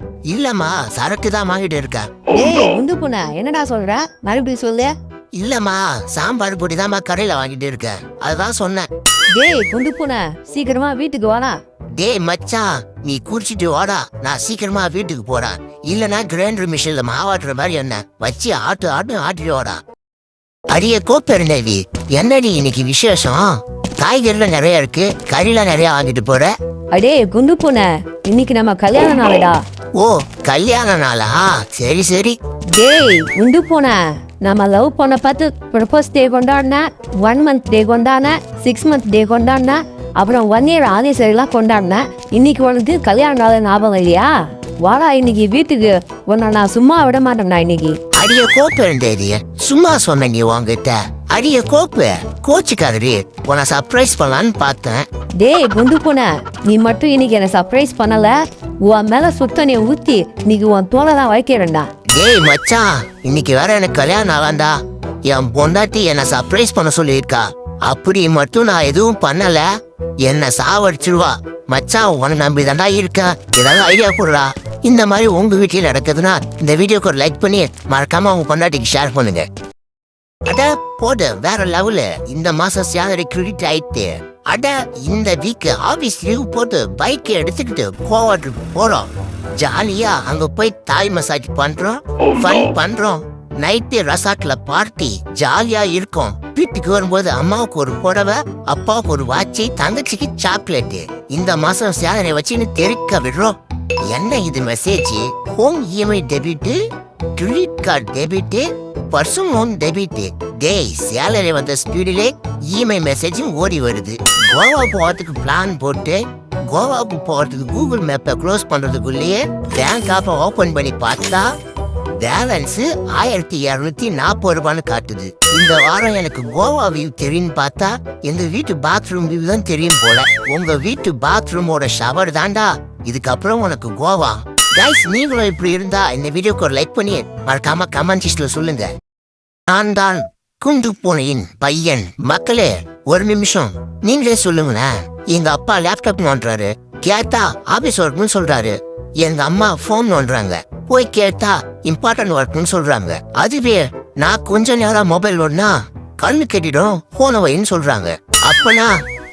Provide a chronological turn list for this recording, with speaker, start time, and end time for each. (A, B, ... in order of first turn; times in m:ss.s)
0:00.3-0:02.1 A
0:02.3-0:04.9 B
0:05.3-0:08.9 A
0:09.3-0:11.6 B
0:12.0-0:19.8 A
0:20.7-0:26.5 A
0:26.9-0:29.6 B
0:30.0-0:32.4 A
0:32.7-0:48.0 B
0:48.1-0:55.0 A
0:55.4-1:01.9 B
1:02.1-1:09.6 A
1:10.2-1:19.4 A
1:20.5-1:43.6 A
1:44.1-1:46.8 A
1:47.4-2:01.5 A
2:02.2-2:18.9 A
2:19.7-2:39.0 A